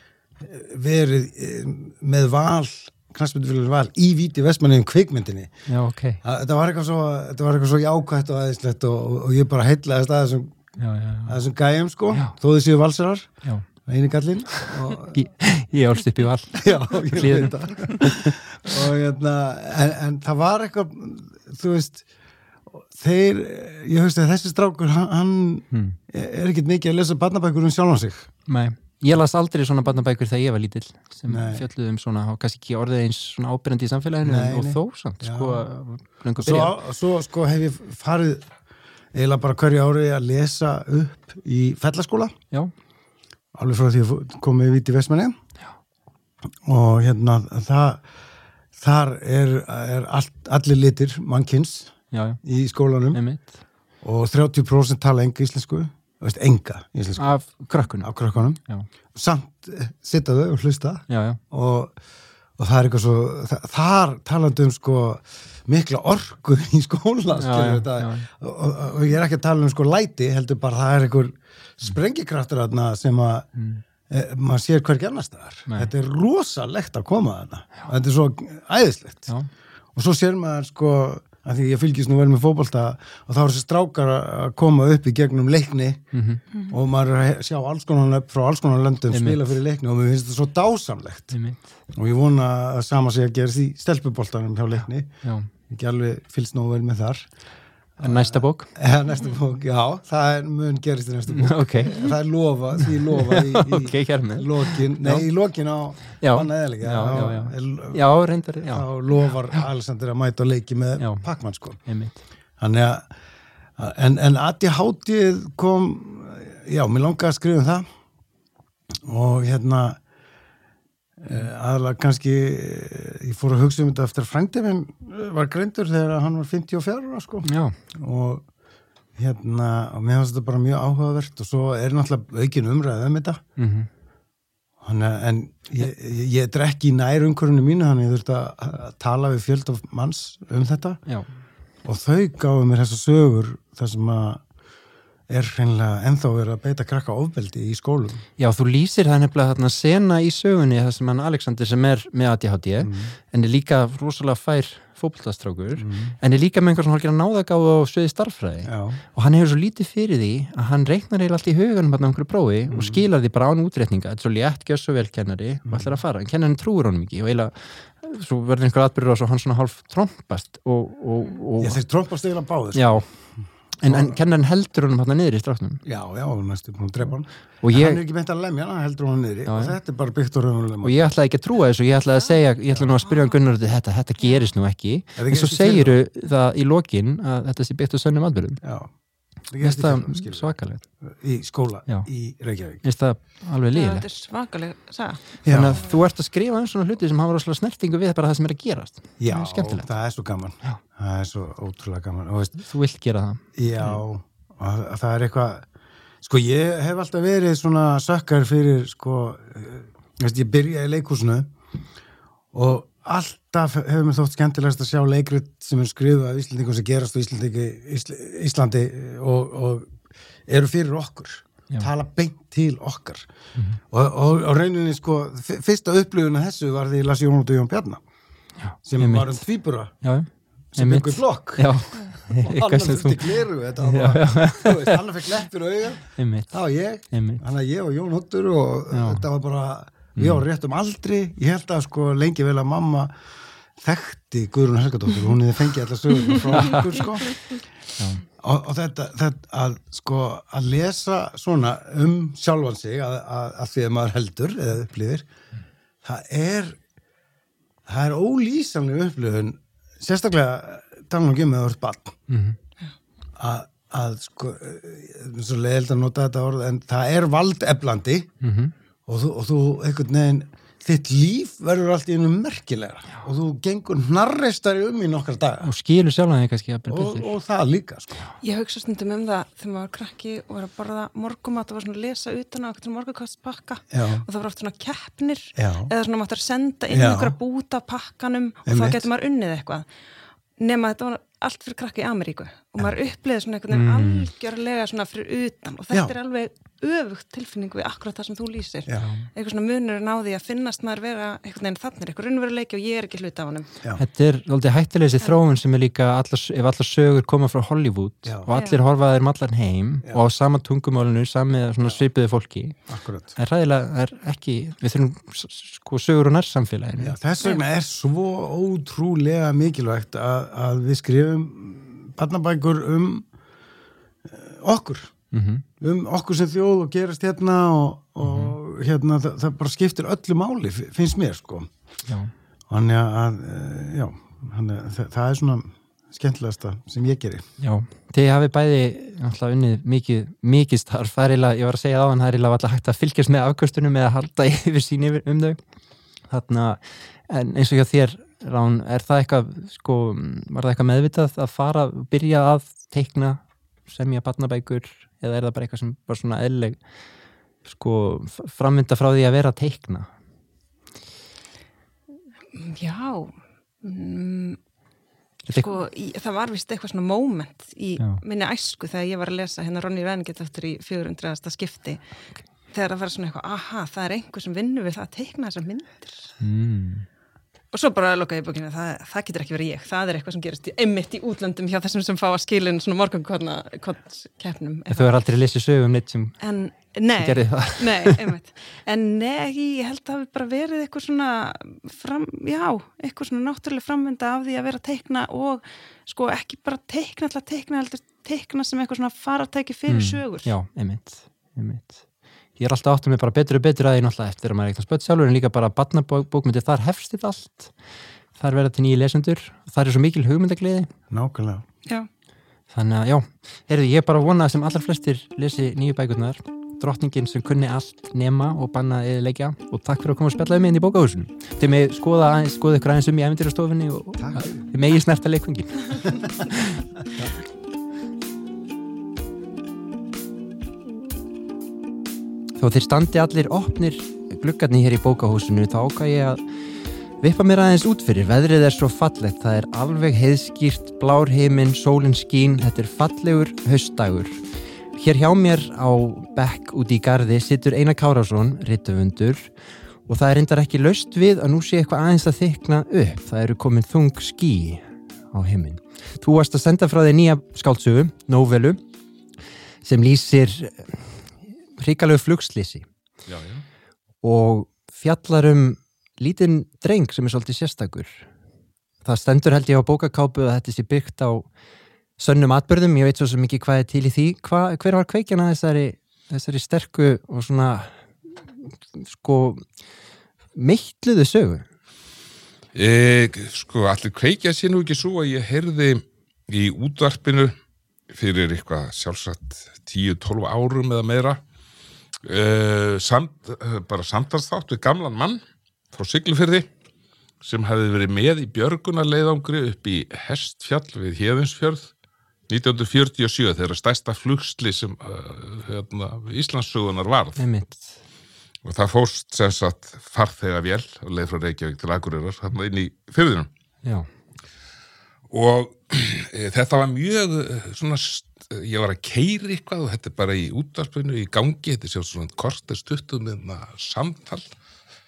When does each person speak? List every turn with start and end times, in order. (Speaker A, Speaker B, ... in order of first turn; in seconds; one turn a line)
Speaker A: 0.4-5.5
Speaker B: 5.7-6.2
Speaker A: 6.2-10.6
Speaker B: 10.8-11.4
Speaker A: 11.3-13.3
Speaker A: 13.8-15.2
Speaker B: 14.5-18.3
Speaker A: 16.6-22.0
Speaker A: 22.9-28.3
Speaker B: 25.7-26.0
Speaker B: 28.5-36.7
Speaker A: 31.3-31.6
Speaker A: 34.2-35.6
Speaker A: 36.4-38.5
Speaker A: 39.1-42.3
Speaker A: 43.5-45.3
Speaker A: 46.6-48.0
Speaker A: 48.8-53.2
Speaker B: 52.1-52.4
Speaker B: 53.1-53.5
Speaker A: 54.0-57.5
Speaker B: 57.2-58.1
Speaker A: 58.0-58.6
Speaker A: 59.1-61.9
Speaker B: 61.1-61.4
Speaker A: 62.6-73.5
Speaker B: 67.3-68.3
Speaker B: 73.5-73.8
Speaker A: 74.1-79.3
Speaker A: 79.9-86.1
Speaker B: 86.1-86.4
Speaker A: 86.7-91.3
Speaker B: 89.1-89.5
Speaker B: 91.3-91.8
Speaker A: 91.9-95.1
Speaker B: 95.2-95.5
Speaker A: 95.7-97.3
Speaker A: 98.0-108.0
Speaker B: 98.0-98.7
Speaker B: 101.3-102.0
Speaker B: 103.1-105.3
Speaker B: 106.2-108.8
Speaker A: 108.6-111.8
Speaker B: 111.0-111.2
Speaker B: 111.8-112.2
Speaker A: 112.6-113.1
Speaker A: 113.8-117.8
Speaker A: 119.0-120.0
Speaker A: 121.2-128.4
Speaker B: 127.4-127.7
Speaker A: 129.2-133.4
Speaker B: 133.6-133.9
Speaker A: 134.8-141.0
Speaker A: 141.8-144.4
Speaker A: 145.3-148.2
Speaker B: 148.4-171.8
Speaker A: 152.8-153.1
Speaker A: 155.8-156.2
Speaker A: 158.7-159.0
Speaker A: 162.7-163.0
Speaker A: 165.7-166.0
Speaker A: 171.6-173.0
Speaker B: 172.7-173.0
Speaker B: 173.8-175.8
Speaker A: 173.8-174.2
Speaker A: 175.8-181.0
Speaker B: 177.6-178.0
Speaker B: 179.5-179.8
Speaker B: 180.8-188.6
Speaker C: 183.1-183.3
Speaker C: 184.2-184.5
Speaker A: 185.2-186.0
Speaker A: 188.6-188.9
Speaker A: 189.5-192.8
Speaker B: 189.6-190.8
Speaker B: 192.8-194.1
Speaker C: 193.7-195.2
Speaker A: 195.4-195.8
Speaker B: 195.5-199.9
Speaker A: 199.2-202.6
Speaker B: 202.6-204.0
Speaker A: 203.6-205.7
Speaker A: 206.2-211.5
Speaker A: 212.5-219.9
Speaker A: 220.5-223.3
Speaker A: 223.9-228.0
Speaker B: 228.6-229.4
Speaker A: 228.8-229.9
Speaker B: 230.0-233.3
Speaker A: 230.7-243.1
Speaker B: 233.8-235.0
Speaker B: 236.2-236.6
Speaker B: 237.1-237.4
Speaker B: 238.9-239.2
Speaker B: 240.2-240.4
Speaker A: 243.8-247.5
Speaker B: 246.5-246.9
Speaker B: 248.0-248.2
Speaker A: 248.4-255.3
Speaker A: 256.0-256.8
Speaker A: 257.9-262.1
Speaker B: 262.3-262.6
Speaker A: 263.4-268.3
Speaker B: 268.4-268.7
Speaker A: 269.1-275.7
Speaker B: 275.6-277.3
Speaker A: 276.9-278.3
Speaker C: 278.4-289.9
Speaker A: 283.9-284.2
Speaker A: 285.6-285.9
Speaker A: 286.9-287.4
Speaker A: 288.7-289.1
Speaker C: 290.6-303.7
Speaker B: 293.7-294.3
Speaker B: 299.0-299.2
Speaker B: 303.9-312.8
Speaker A: 308.2-308.5
Speaker C: 308.5-308.8
Speaker A: 312.9-313.3
Speaker B: 313.3-317.2
Speaker A: 317.0-323.2
Speaker A: 324.2-325.1
Speaker B: 325.3-325.6
Speaker A: 325.8-331.7
Speaker B: 328.2-328.6
Speaker A: 332.7-337.4
Speaker B: 337.6-345.6
Speaker B: 346.3-356.8
Speaker B: 357.6-360.1
Speaker C: 362.5-364.6
Speaker B: 365.5-365.8
Speaker C: 365.6-376.3
Speaker B: 376.4-377.1
Speaker C: 377.7-385.1
Speaker B: 384.9-386.4
Speaker C: 386.4-400.5
Speaker B: 387.1-388.2
Speaker B: 399.9-402.0
Speaker B: 402.6-407.7
Speaker B: 408.4-410.9
Speaker A: 411.1-411.6
Speaker B: 412.7-427.2
Speaker A: 424.2-424.6
Speaker B: 432.6-436.4
Speaker B: 437.2-444.4
Speaker B: 444.9-449.5
Speaker B: 450.1-458.8
Speaker B: 459.8-461.2
Speaker B: 461.8-462.9
Speaker D: 463.3-463.6
Speaker B: 464.2-468.2
Speaker B: 469.0-471.5
Speaker B: 472.2-477.9
Speaker B: 478.9-479.6
Speaker B: 480.5-481.6
Speaker D: 482.7-487.5
Speaker D: 488.1-491.4
Speaker D: 492.2-495.4
Speaker D: 495.9-496.7
Speaker D: 497.4-501.9
Speaker D: 502.5-507.4
Speaker B: 507.4-508.0
Speaker D: 508.6-513.5
Speaker D: 515.3-524.5